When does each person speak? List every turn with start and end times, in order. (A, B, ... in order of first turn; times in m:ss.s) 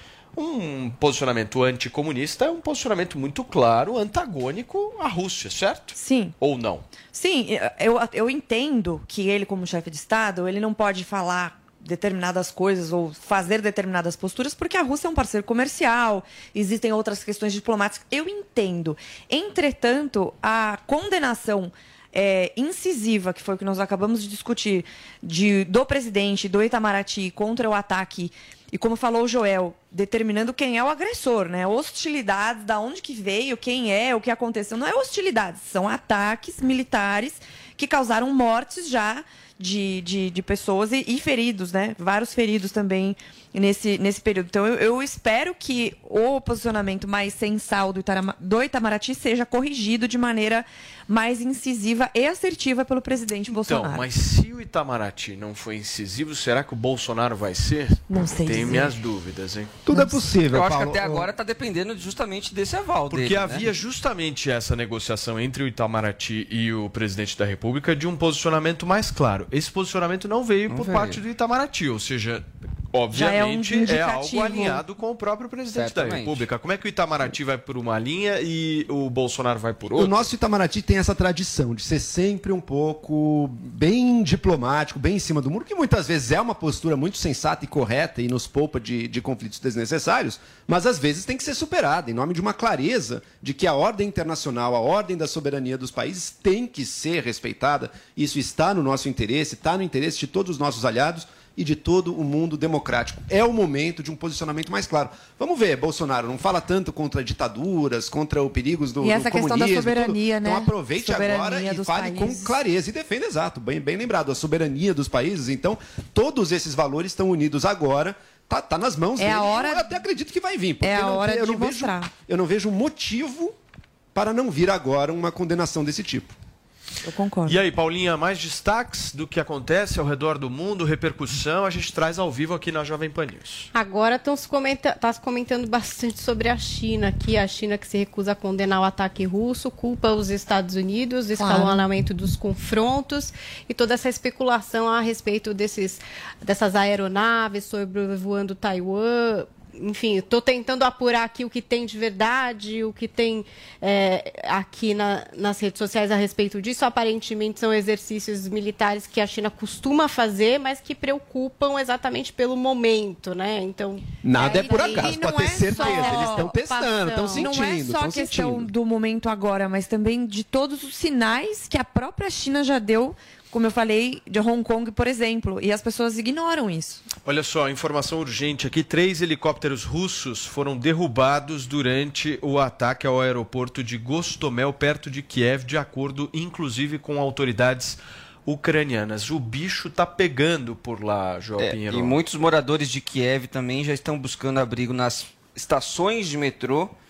0:00.4-0:06.8 A
0:06.0-0:06.3 B
0:07.1-0:54.0 B
0:53.7-0:59.8 A
0:58.1-0:59.0 B
0:59.9-1:01.3 C
0:59.9-1:00.3 B
1:00.5-1:03.7 D
1:03.1-1:20.3 A
1:10.7-1:11.2 D
1:13.1-1:14.8 B
1:15.7-1:16.4 D
1:19.9-2:03.5 C
1:49.0-1:52.6 B
1:59.2-2:00.0 B
2:00.8-2:02.1 B
2:04.2-2:06.4 C
2:07.0-2:07.6 B
2:07.5-2:13.7 A
2:13.7-2:47.5 E
2:21.4-2:21.8 B
2:44.2-2:48.7 C
2:44.4-2:57.0 B
2:57.2-3:12.2 A
3:11.6-3:16.9 D